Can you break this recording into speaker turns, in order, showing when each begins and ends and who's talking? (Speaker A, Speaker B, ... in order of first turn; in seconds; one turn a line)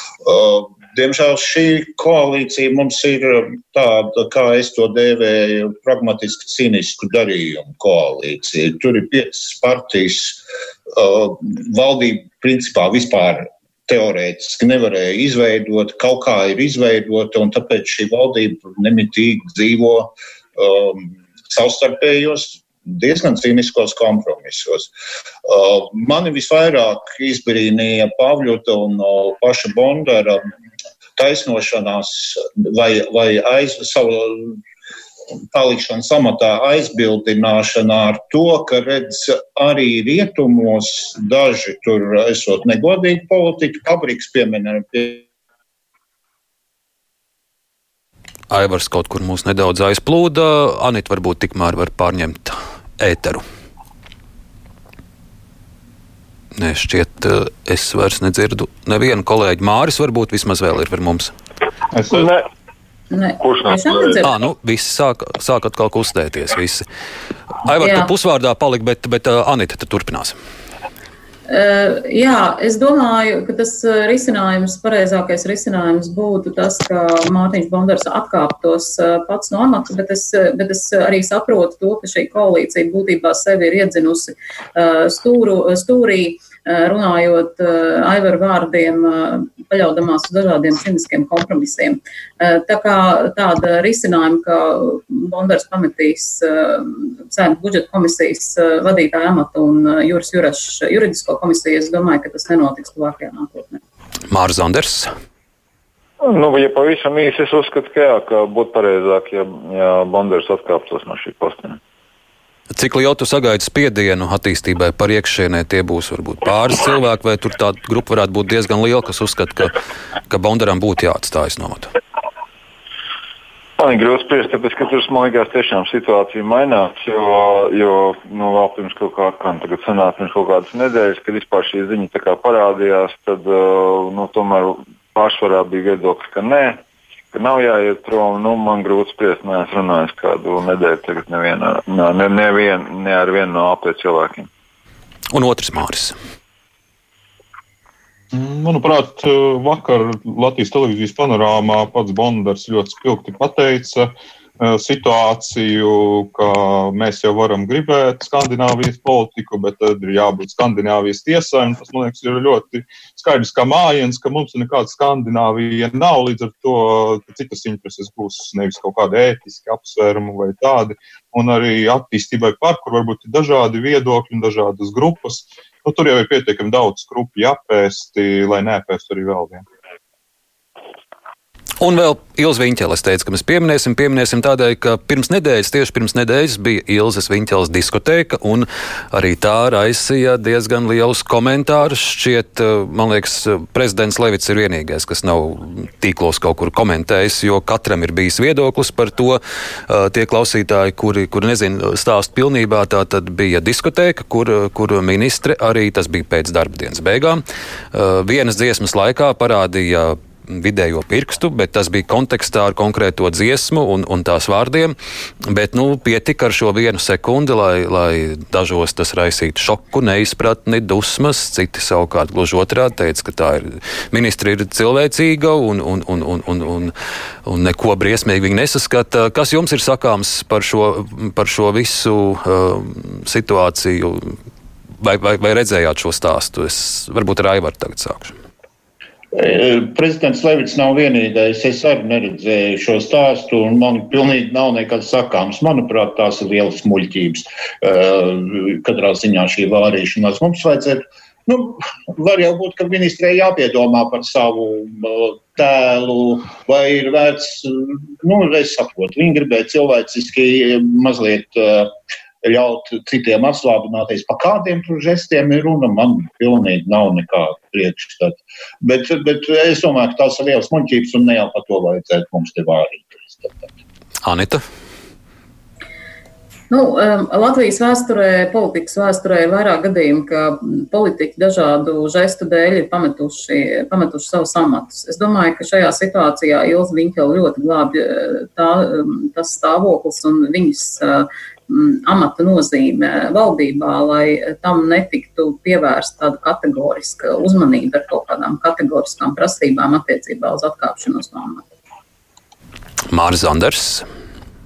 Speaker A: 0.2-24.9
Speaker A: 25.4-30.5
Speaker A: 31.1-34.6
Speaker A: 35.5-45.2
Speaker B: 48.5-53.4
Speaker B: 56.6-61.3
Speaker C: 61.9-62.3
Speaker D: 62.1-62.5
Speaker E: 63.1-64.3
Speaker D: 63.4-64.2
Speaker B: 64.2-66.8
Speaker B: 67.6-70.3
Speaker E: 67.8-68.1
Speaker E: 71.5-103.8
Speaker B: 104.3-105.1
Speaker D: 106.2-111.8
Speaker B: 112.7-119.8
Speaker B: 120.3-121.9
Speaker D: 123.8-144.5
Speaker B: 145.3-146.2
Speaker C: 148.3-179.6
Speaker B: 181.8-207.4
Speaker B: 207.9-214.9
Speaker B: 215.4-226.9
Speaker B: 227.4-234.4
Speaker B: 235.0-238.3
Speaker A: 239.3-273.7
Speaker B: 274.2-274.6
Speaker E: 276.7-301.6
Speaker B: 303.1-304.1